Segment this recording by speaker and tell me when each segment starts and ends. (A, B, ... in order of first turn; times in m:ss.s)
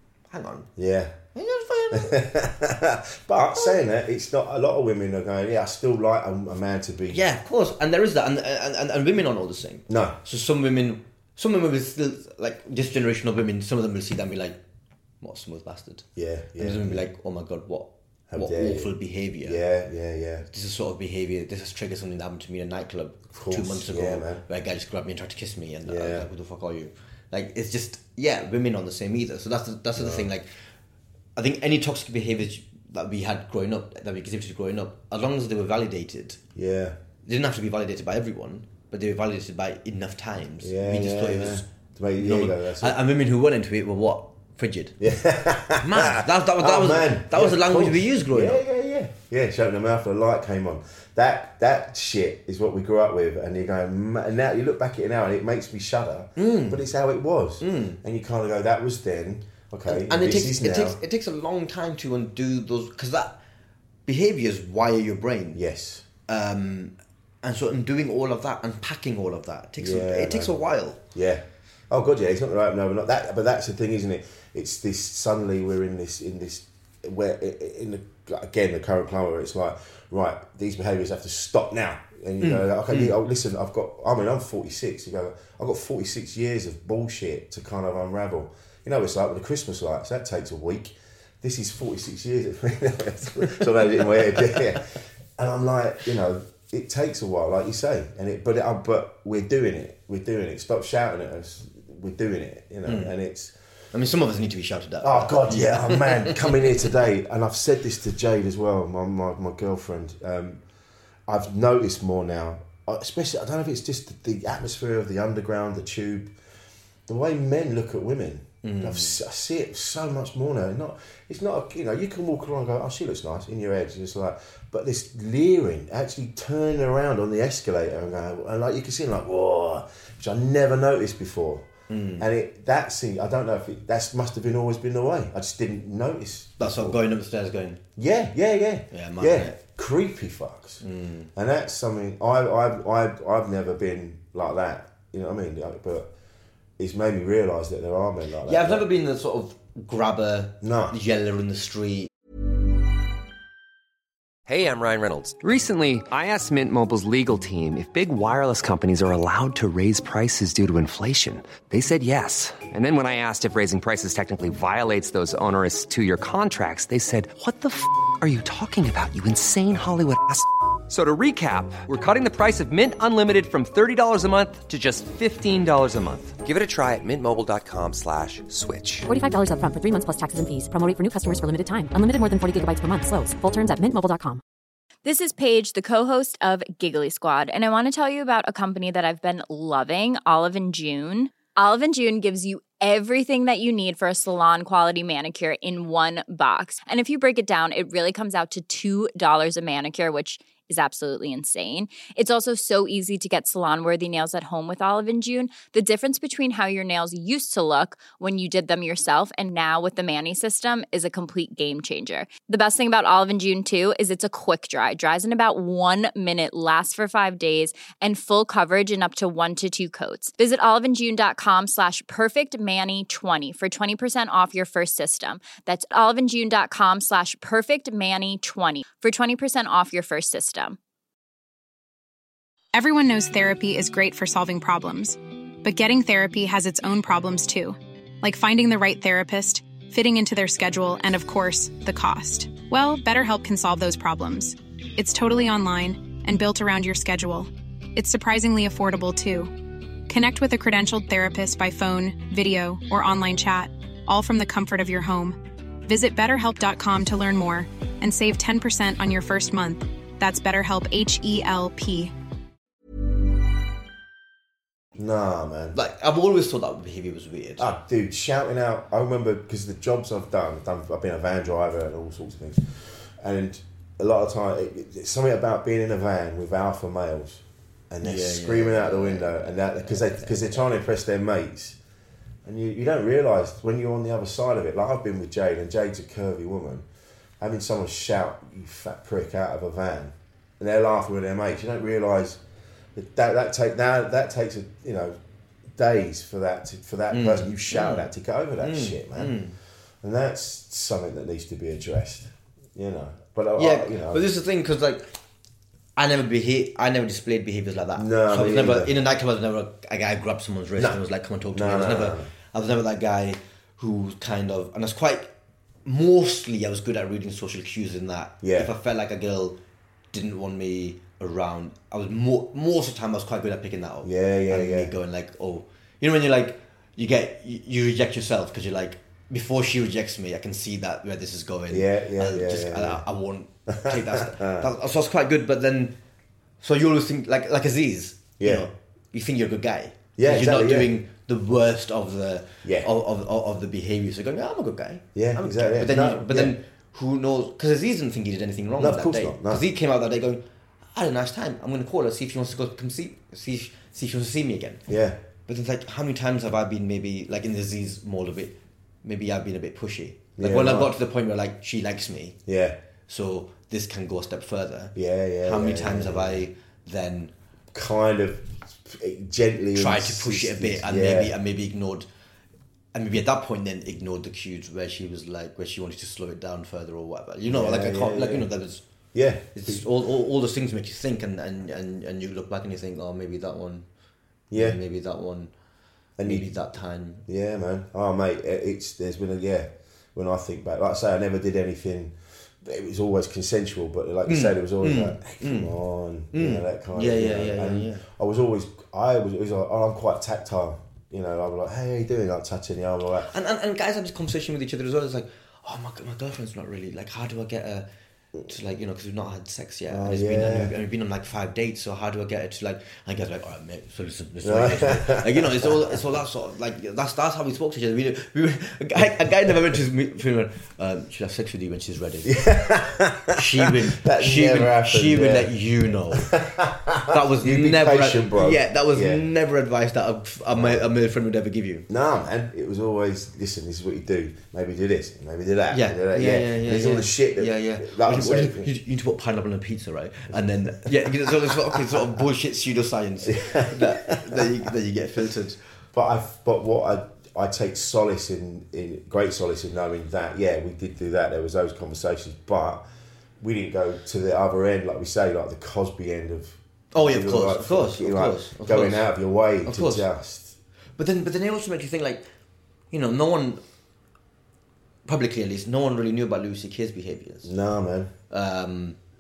0:00.3-0:00.7 A
0:00.8-0:01.2 B
0:01.4-0:02.2 A
0:01.9-0:07.2 B
0:07.1-0:14.6 A
0:09.9-0:10.2 B
0:15.2-0:16.0 A
0:16.2-0:17.0 B
0:16.6-0:19.6 A
0:18.3-0:20.5 B
0:20.5-0:30.5 A
0:23.3-0:24.4 B
0:25.9-0:26.3 B
0:30.0-0:30.3 B
0:31.4-0:36.4 A
0:36.6-0:37.0 B
0:37.2-0:41.7 A
0:40.6-0:43.0 B
0:42.2-0:45.0 A
0:45.0-1:01.0 B
0:45.8-0:48.6 A
0:56.4-0:56.8 A
0:57.6-0:58.0 A
0:59.9-1:03.4 A
1:04.1-1:05.6 A
1:05.5-1:06.0 B
1:06.3-1:11.0 A
1:09.8-1:10.6 B
1:11.1-1:43.5 B
1:22.4-1:23.2 A
1:33.5-1:34.8 A
1:42.9-1:43.1 A
1:43.9-1:46.7 A
1:45.0-1:50.6 B
1:51.3-1:56.3 B
1:57.1-2:11.7 B
1:58.6-1:59.2 A
2:11.9-2:12.3 A
2:12.2-2:17.0 B
2:16.6-2:17.8 A
2:18.0-2:20.8 B
2:18.9-2:19.6 A
2:20.8-2:21.3 A
2:21.4-2:26.1 B
2:26.8-2:28.8 B
2:28.5-2:32.1 A
2:30.6-2:31.0 B
2:34.5-2:59.1 C
2:59.1-3:04.4 D
3:05.0-3:50.8 E
3:52.7-4:09.5 F
4:10.1-4:22.1 F
4:25.0-4:25.8 B
4:25.7-4:27.7 A
4:27.6-4:41.8 B
4:38.0-4:40.7 A
4:42.4-4:46.9 B
4:47.4-4:52.4 B
4:53.0-4:55.2 B
4:55.8-4:59.4 B
4:57.1-4:58.1 A
4:58.6-4:59.6 A
5:00.0-5:04.2 B
5:03.6-5:05.1 A
5:06.0-5:15.3 A
5:08.0-5:08.9 B
5:11.5-5:12.3 B
5:15.8-5:19.6 A
5:18.4-5:18.7 B
5:20.1-5:36.0 A
5:24.0-5:24.9 B
5:31.7-5:33.0 B
5:33.7-5:34.7 B
5:36.6-5:50.4 A
5:38.4-5:38.7 B
5:40.2-5:40.9 B
5:42.6-5:42.9 B
5:45.2-5:46.6 B
5:48.8-5:49.6 B
5:50.9-5:54.9 A
5:54.9-5:55.2 B
5:55.5-6:02.4 A
6:00.4-6:00.9 B
6:02.5-6:02.8 B
6:03.1-6:04.9 A
6:05.0-6:06.5 B
6:05.4-6:07.3 A
6:07.7-6:11.4 B
6:09.8-6:12.1 A
6:12.9-6:18.8 A
6:17.5-6:18.5 B
6:19.1-6:19.8 B
6:19.5-6:23.9 A
6:24.5-6:24.8 B
6:24.5-6:25.5 A
6:26.2-6:26.5 B
6:26.2-6:27.2 A
6:27.3-6:43.3 B
6:34.3-6:35.7 A
6:36.3-6:38.1 A
6:43.3-6:47.9 A
6:48.5-7:02.4 A
6:49.9-6:50.7 B
6:54.4-6:56.0 B
7:02.2-7:05.5 B
7:03.3-7:06.3 A
7:06.1-7:09.2 B
7:07.1-7:11.9 A
7:10.5-7:10.9 B
7:11.9-7:18.7 B
7:15.7-7:25.6 A
7:20.3-7:22.0 B
7:23.3-7:24.5 B
7:25.9-7:32.8 B
7:33.4-7:40.6 B
7:36.9-7:39.1 A
7:39.6-7:40.1 A
7:41.0-7:42.3 A
7:42.9-7:43.6 A
7:45.1-7:47.5 A
7:47.4-7:48.1 B
7:48.3-7:49.0 A